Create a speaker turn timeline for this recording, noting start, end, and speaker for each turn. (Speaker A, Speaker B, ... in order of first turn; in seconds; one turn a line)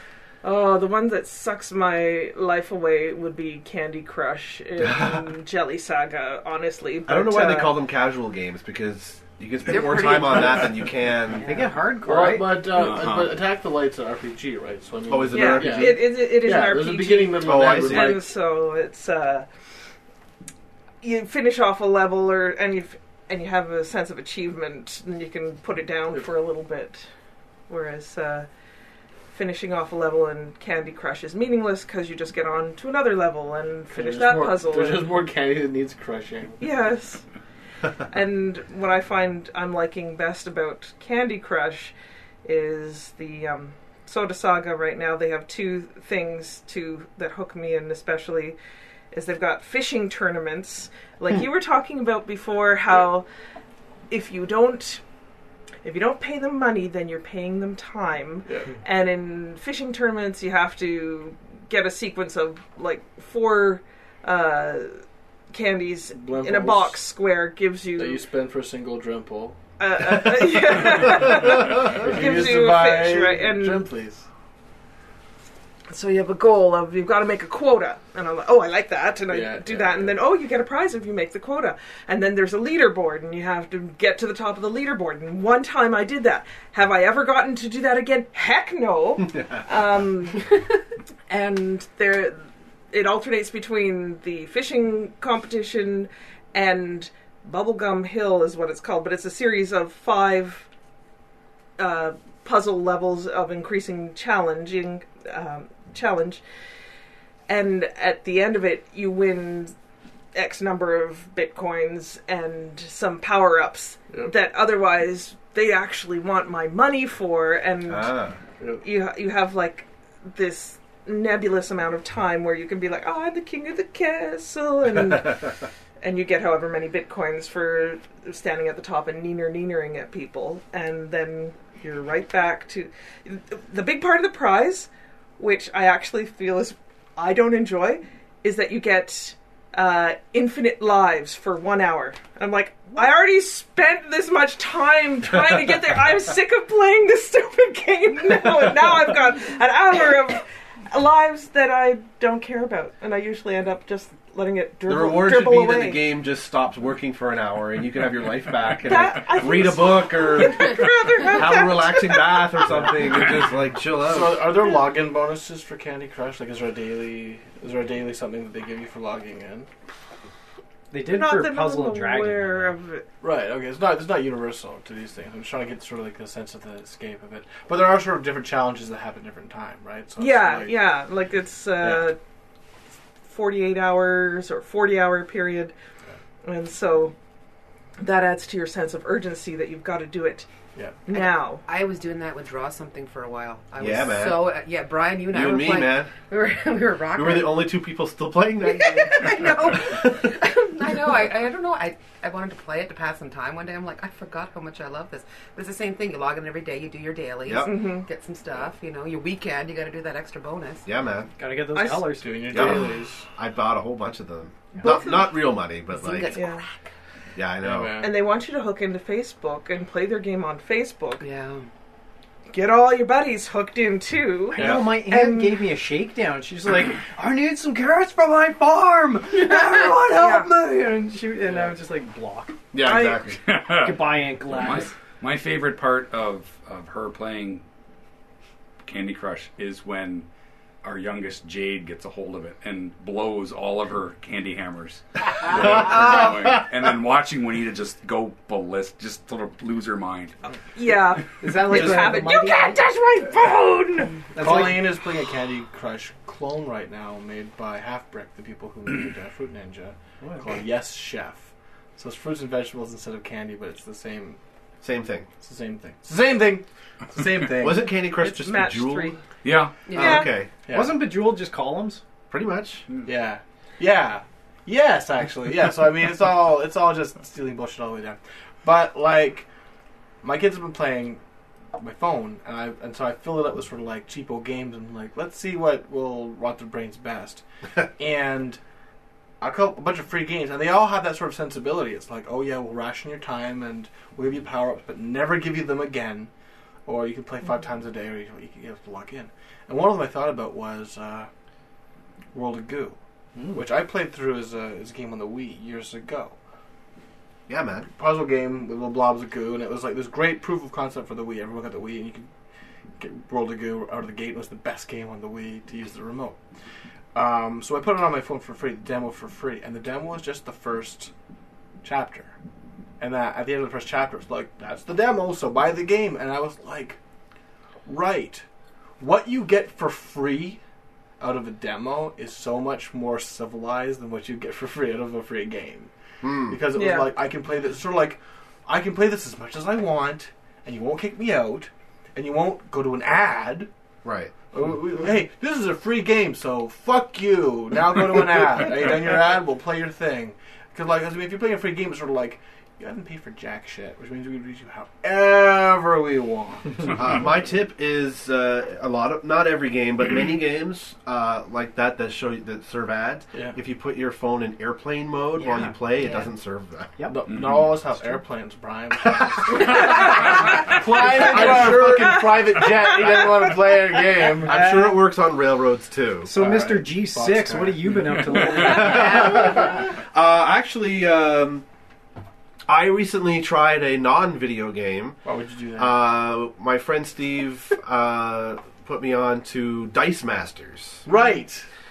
Speaker A: 0.4-7.7
Speaker B: 4.8-5.1
Speaker B: 7.1-11.5
Speaker C: 9.7-10.8
Speaker D: 11.4-12.6
Speaker E: 11.9-18.2
Speaker F: 12.7-13.4
Speaker B: 15.1-16.1
Speaker A: 15.3-19.4
Speaker B: 17.4-18.2
Speaker A: 21.0-27.1
Speaker A: 27.7-28.5
Speaker A: 29.3-35.1
Speaker E: 33.9-36.6
Speaker A: 36.6-37.2
Speaker A: 38.1-48.6
Speaker A: 49.1-53.2
Speaker A: 54.1-55.0
Speaker A: 55.8-65.0
Speaker E: 58.5-58.7
Speaker A: 65.5-68.2
Speaker E: 66.1-67.0
Speaker E: 68.0-69.6
Speaker A: 69.8-73.9
Speaker E: 70.6-74.2
Speaker A: 75.9-90.8
Speaker E: 79.3-80.2
Speaker A: 91.3-100.7
Speaker A: 101.8-106.4
Speaker A: 107.5-109.7
Speaker A: 110.3-118.1
Speaker B: 117.9-118.4
Speaker A: 118.8-156.0
Speaker B: 154.9-164.4
Speaker A: 158.8-162.8
Speaker E: 162.7-163.4
Speaker E: 164.0-169.7
Speaker D: 170.9-172.8
Speaker A: 171.1-173.0
Speaker E: 173.2-180.8
Speaker A: 180.2-182.2
Speaker E: 181.8-182.1
Speaker A: 183.3-185.7
Speaker A: 186.4-187.1
Speaker A: 188.0-190.5
Speaker A: 191.1-191.6
Speaker C: 191.1-197.6
Speaker B: 193.8-194.5
Speaker B: 195.3-196.1
Speaker B: 197.1-200.3
Speaker C: 198.6-210.8
Speaker B: 207.4-207.7
Speaker A: 207.6-208.1
Speaker B: 210.8-211.3
Speaker D: 211.4-212.5
Speaker A: 211.7-212.1
Speaker E: 212.0-213.2
Speaker B: 212.5-216.3
Speaker A: 214.8-215.2
Speaker C: 214.8-215.1
Speaker C: 215.9-216.7
Speaker A: 216.3-216.6
Speaker B: 217.3-217.9
Speaker E: 217.6-218.1
Speaker A: 218.0-221.2
Speaker C: 221.2-221.7
Speaker A: 222.5-225.6
Speaker D: 224.5-232.5
Speaker B: 232.7-233.4
Speaker A: 232.8-233.3
Speaker F: 233.4-237.6
Speaker D: 233.8-234.9
Speaker F: 238.8-240.3
Speaker F: 240.8-250.3
Speaker C: 245.8-246.6
Speaker A: 250.7-254.3
Speaker D: 251.4-252.8
Speaker B: 251.7-252.1
Speaker D: 254.3-254.9
Speaker E: 254.4-264.4
Speaker B: 264.8-265.3
Speaker E: 265.4-267.9
Speaker B: 267.6-269.2
Speaker A: 268.2-269.2
Speaker F: 269.4-269.8
Speaker C: 269.9-270.3
Speaker B: 269.9-270.5
Speaker A: 269.9-270.3
Speaker E: 270.6-271.0
Speaker D: 270.7-272.0
Speaker B: 272.3-272.8
Speaker E: 273.0-279.4
Speaker E: 280.2-281.2
Speaker E: 281.8-287.4
Speaker E: 288.0-288.6
Speaker E: 289.4-296.3
Speaker E: 296.9-301.3
Speaker E: 302.3-303.0
Speaker D: 303.4-303.6
Speaker E: 303.5-306.4
Speaker B: 307.5-307.9
Speaker E: 307.9-312.3
Speaker E: 313.0-316.4
Speaker E: 317.1-321.1
Speaker E: 321.8-322.3
Speaker E: 323.0-327.0
Speaker E: 327.9-328.4
Speaker E: 329.0-330.6
Speaker E: 331.2-335.9
Speaker B: 336.2-336.6
Speaker E: 336.5-343.7
Speaker A: 336.7-337.1
Speaker B: 344.0-344.3
Speaker E: 344.5-357.2
Speaker B: 356.9-366.9
Speaker D: 365.4-366.1
Speaker E: 367.1-374.9
Speaker F: 367.3-367.8
Speaker B: 371.0-372.3
Speaker A: 371.9-372.2
Speaker A: 372.7-373.5
Speaker B: 374.4-376.3
Speaker D: 376.2-379.3
Speaker E: 376.3-378.0
Speaker B: 378.5-381.6
Speaker C: 378.9-379.8
Speaker B: 382.7-385.2
Speaker E: 385.2-386.0
Speaker B: 385.8-391.1
Speaker E: 391.1-391.6